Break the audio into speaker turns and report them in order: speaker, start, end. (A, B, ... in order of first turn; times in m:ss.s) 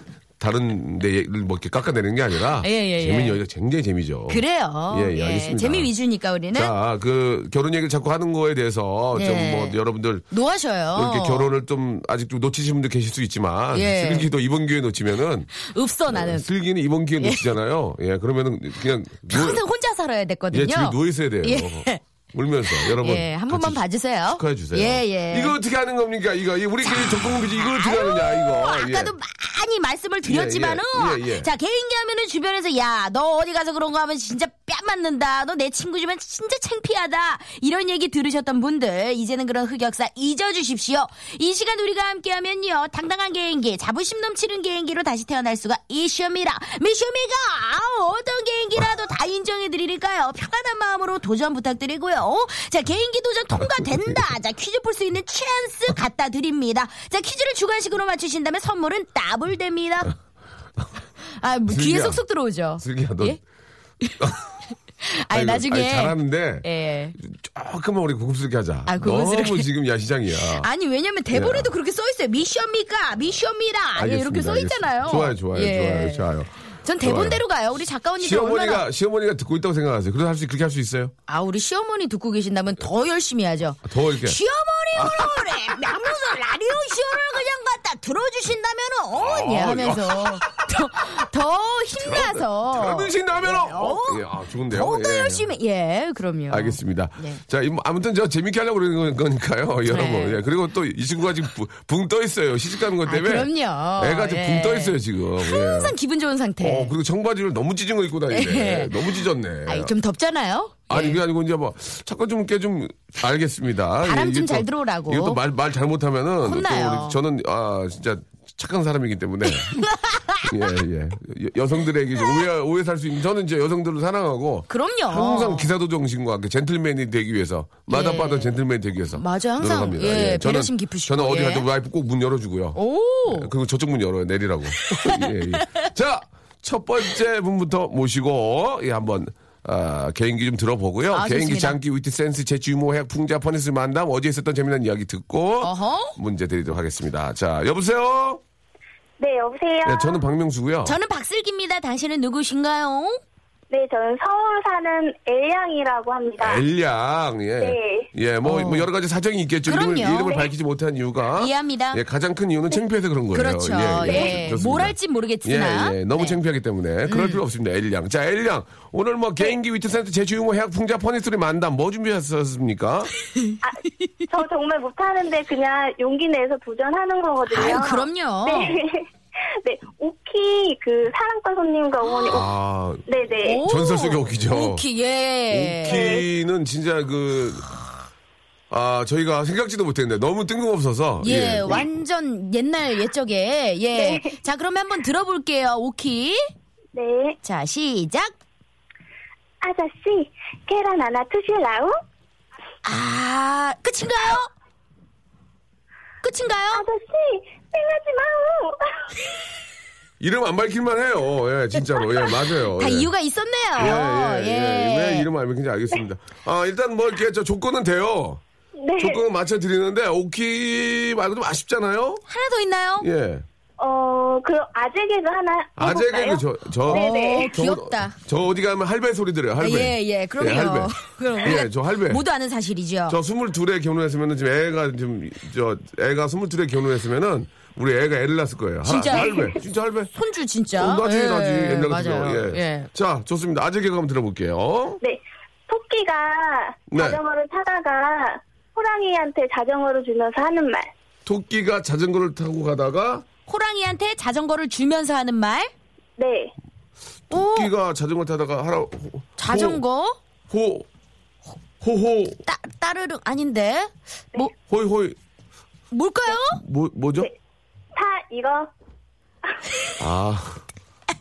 0:00.4-0:05.9 A
0:02.6-0:03.4 B
0:04.3-0:06.7 B
0:06.5-0:10.2 A
0:09.1-0:09.8 B
0:10.3-0:11.5 B
0:10.9-0:15.5 A
0:13.7-0:14.3 B
0:15.6-0:16.4 B
0:16.1-0:19.6 A
0:17.2-0:17.4 B
0:19.3-0:22.0 B
0:20.5-0:29.1 A
0:22.7-0:25.6 B
0:26.8-1:00.2 B
0:30.2-0:31.5 A
1:01.4-1:03.4 B
1:01.7-1:02.2 A
1:02.8-1:03.4 A
1:04.0-1:04.3 B
1:05.0-1:07.1 B
1:05.3-1:10.7 A
1:08.9-1:09.7 B
1:10.4-1:16.3 B
1:11.3-1:11.7 A
1:14.0-1:16.5 A
1:16.8-1:18.9 B
1:17.0-1:17.4 A
1:18.2-1:21.1 A
1:21.3-1:37.4 B
1:23.8-1:24.4 A
1:24.9-1:26.0 A
1:29.1-1:30.6 A
1:32.0-1:35.5 A
1:36.5-1:45.9 A
1:39.9-1:40.4 B
1:43.0-1:46.9 B
1:46.6-1:49.9 A
1:48.3-1:51.2 B
1:50.9-1:59.9 A
1:54.0-1:55.4 B
1:56.4-1:57.2 B
1:59.5-2:00.5 B
2:00.4-2:28.4 A
2:04.7-2:05.7 B
2:07.9-2:08.6 B
2:09.2-2:11.7 B
2:12.7-2:13.5 B
2:14.9-2:15.8 B
2:21.1-2:21.8 B
2:25.6-2:26.2 B
2:29.2-2:30.2 C
2:29.8-2:31.0 A
2:30.8-2:33.2 B
2:33.7-2:36.6 C
2:36.4-2:53.1 A
2:37.6-2:38.1 C
2:38.4-2:38.9 B
2:39.6-2:40.5 B
2:41.4-2:42.0 B
2:43.3-2:46.4 B
2:44.1-2:44.3 C
2:47.1-2:47.4 B
2:53.6-3:02.5 C
2:57.5-2:58.8 B
3:02.3-3:03.0 A
3:03.1-3:03.6 C
3:03.4-3:06.1 B
3:03.6-3:04.8 A
3:05.5-3:07.7 A
3:05.8-3:06.2 C
3:08.7-3:11.8 A
3:11.2-3:16.5 B
3:13.9-3:14.3 C
3:16.9-3:17.4 C
3:17.4-3:18.4 B
3:19.6-3:21.9 C
3:22.8-3:24.5 B
3:26.2-3:26.8 B
3:26.7-3:28.9 C
3:30.2-3:33.1 A
3:32.8-3:35.3 B
3:33.8-3:38.4 A
3:38.8-3:39.2 C
3:39.0-3:42.2 A
3:42.3-3:43.1 B
3:43.0-3:43.4 A
3:43.8-3:47.5 C
3:45.8-3:52.2 A
3:46.9-3:48.2 B
3:49.6-3:53.2 B
3:53.1-4:00.1 A
3:58.8-3:59.4 B
3:59.1-3:59.5 C
4:00.1-4:02.9 B
4:00.7-4:05.0 A
4:05.0-4:10.9 C
4:06.9-4:07.2 A
4:11.2-4:13.2 A
4:13.5-4:15.7 B
4:16.2-4:16.5 C
4:17.3-4:19.8 A
4:17.3-4:17.7 B
4:19.4-4:20.2 B
4:20.5-4:20.9 A
4:21.8-4:22.4 A
4:22.4-4:24.5 B
4:24.7-4:25.2 A
4:25.9-4:26.6 B
4:26.4-4:27.3 A
4:27.9-4:28.7 C
4:30.0-4:30.6 A